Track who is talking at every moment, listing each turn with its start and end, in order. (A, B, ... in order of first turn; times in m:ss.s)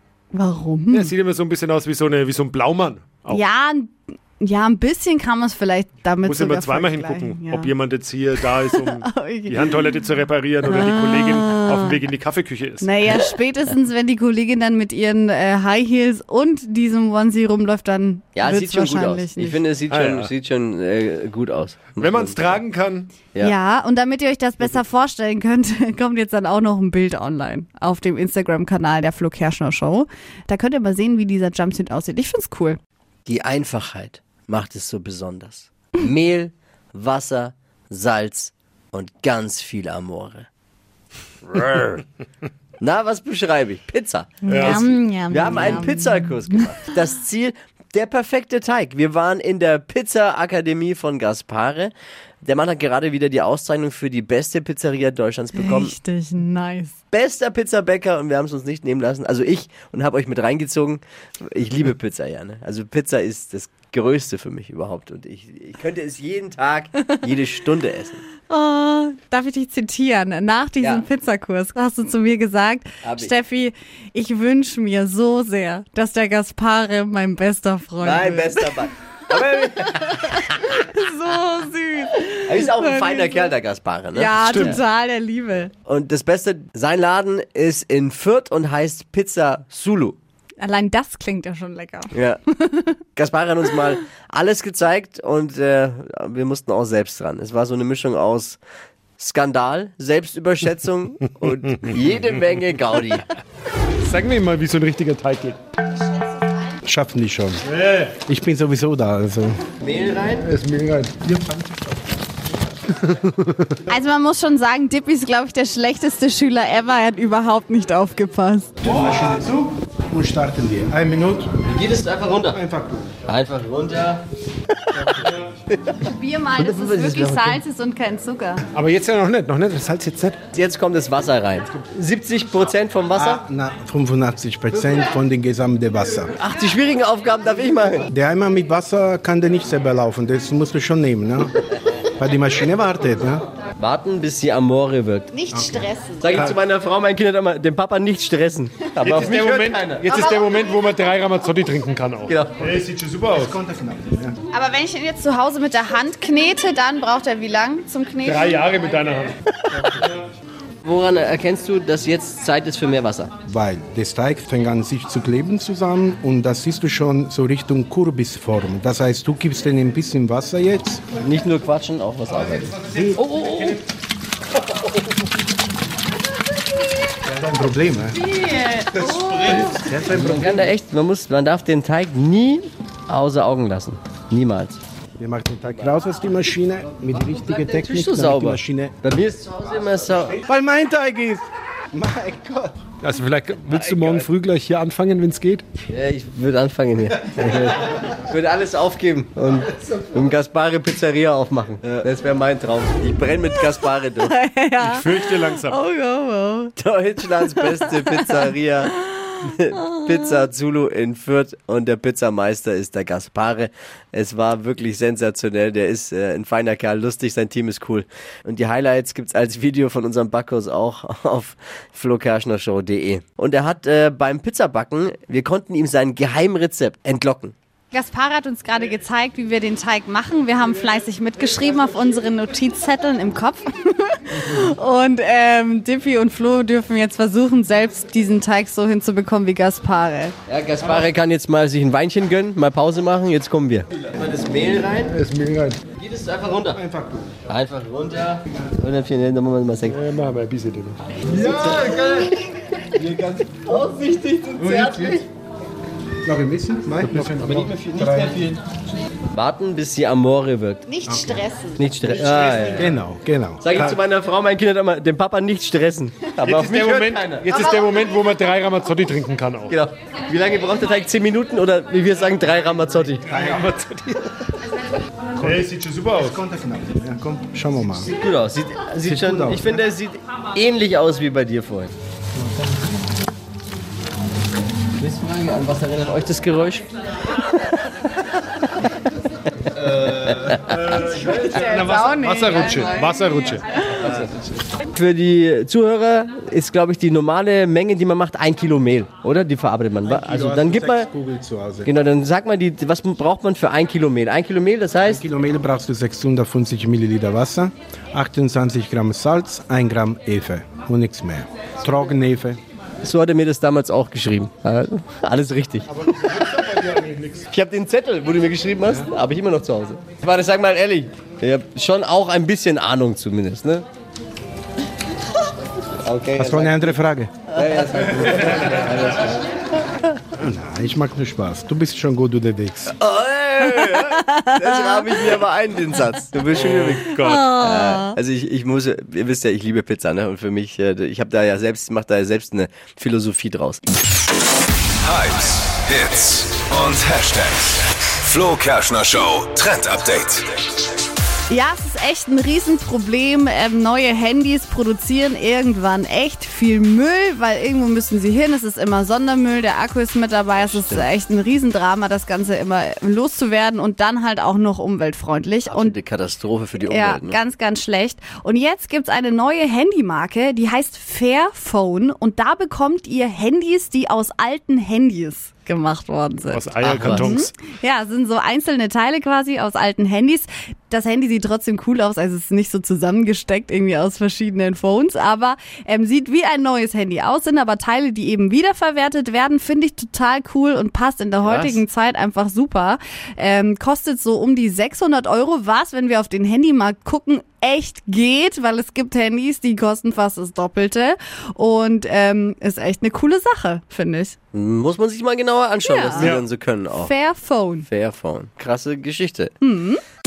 0:00.3-0:01.1 A
0:00.9-0:03.4 B
0:03.3-0:07.7 A
0:06.2-0:12.9 B
0:08.4-0:09.8 A
0:10.6-0:12.0 A
0:12.8-0:19.6 A
0:18.4-0:22.6 C
0:19.9-0:20.3 B
0:22.0-0:23.1 B
0:23.4-0:32.8 A
0:33.3-0:40.5 C
0:41.5-0:42.0 B
0:42.8-0:51.9 C
0:44.4-0:46.8 A
0:44.4-0:44.9 B
0:45.5-0:45.8 B
0:52.4-0:55.9 C
0:55.5-0:56.9 A
0:57.1-1:08.2 C
1:08.5-1:18.9 A
1:10.8-1:11.1 C
1:13.0-1:13.3 C
1:18.0-1:20.5 C
1:19.5-1:23.5 A
1:22.4-1:24.8 C
1:24.1-1:25.7 A
1:24.4-1:24.8 B
1:25.8-1:30.2 C
1:30.6-1:33.0 A
1:32.1-1:32.4 C
1:33.1-1:38.6 C
1:39.2-1:43.2 C
1:41.5-1:42.0 B
1:44.0-1:45.6 B
1:46.8-1:47.6 D
1:47.6-1:48.2 B
1:48.3-1:49.6 D
1:49.8-1:50.5 C
1:50.4-1:51.7 B
1:53.0-1:53.7 B
1:53.9-1:58.7 A
1:58.8-2:01.5 D
2:01.7-2:02.6 C
2:02.5-2:03.2 D
2:03.3-2:04.2 C
2:06.0-2:08.6 A
2:06.6-2:07.6 C
2:08.7-2:10.4 B
2:10.5-2:13.4 C
2:13.1-2:16.3 D
2:16.4-2:18.1 C
2:18.1-2:21.5 D
2:22.2-2:23.4 D
2:23.8-2:25.3 C
2:25.3-2:26.4 A
2:25.5-2:26.6 D
2:26.2-2:30.0 C
2:29.0-2:33.6 B
2:30.1-2:30.5 A
2:32.3-2:32.8 C
2:33.3-2:34.4 D
2:34.5-2:38.6 A
2:38.2-2:39.4 B
2:40.8-2:43.3 C
2:43.4-2:51.0 D
2:51.2-2:53.8 C
2:52.7-2:53.7 B
2:52.9-2:53.2 D
2:57.2-2:58.2 D
2:58.4-2:59.7 A
2:58.9-3:00.7 D
3:00.0-3:04.8 C
3:05.2-3:09.0 D
3:06.9-3:10.4 C
3:10.3-3:12.8 D
3:13.0-3:15.6 B
3:13.7-3:14.3 C
3:15.9-3:24.4 C
3:23.5-3:30.4 A
3:24.8-3:25.8 B
3:26.8-3:28.9 C
3:29.4-3:47.5 C
3:47.9-4:00.3 A
4:00.5-4:05.2 C
4:05.0-4:05.8 B
4:05.9-4:06.8 C
4:06.7-4:07.4 D
4:07.5-4:10.0 C
4:09.9-4:11.0 B
4:11.3-4:15.3 C
4:11.3-4:12.3 D
4:14.6-4:15.2 D
4:16.2-4:18.6 D
4:17.0-4:17.6 B
4:17.2-4:18.6 C
4:19.3-4:20.8 C
4:20.9-4:21.8 A
4:21.0-4:21.5 D
4:21.8-4:23.0 C
4:22.0-4:24.0 D
4:23.6-4:27.6 C
4:26.4-4:29.8 B
4:29.7-4:33.3 C
4:33.2-4:33.7 D
4:33.3-4:34.2 B
4:35.4-4:36.4 B
4:35.4-4:38.1 D
4:37.9-4:41.9 C
4:39.0-4:39.8 D
4:45.0-4:47.7 C
4:49.8-4:50.6 C
4:50.7-4:53.6 B
4:51.0-4:53.8 A
4:54.0-5:01.1 C
5:00.0-5:01.9 D
5:01.8-5:05.2 C
5:05.0-5:12.6 D
5:13.0-5:16.7 C
5:15.9-5:17.5 B
5:17.5-5:23.8 C
5:26.0-5:27.0 C
5:26.4-5:27.3 D
5:27.5-5:29.5 C
5:30.3-5:33.0 D
5:32.9-5:43.8 C
5:33.9-5:35.3 A
5:37.2-5:38.2 A
5:45.0-5:50.5 E
5:51.5-6:05.9 A
6:00.6-6:01.1 C
6:05.7-6:07.4 C
6:06.8-6:44.4 A
6:16.5-6:17.5 B
6:16.8-6:17.3 C
6:31.4-6:31.8 C
6:44.5-6:47.1 C
6:45.8-6:46.3 A
6:46.2-6:46.4 B
6:46.9-6:47.9 A
6:47.9-6:49.5 C
6:49.6-6:50.0 A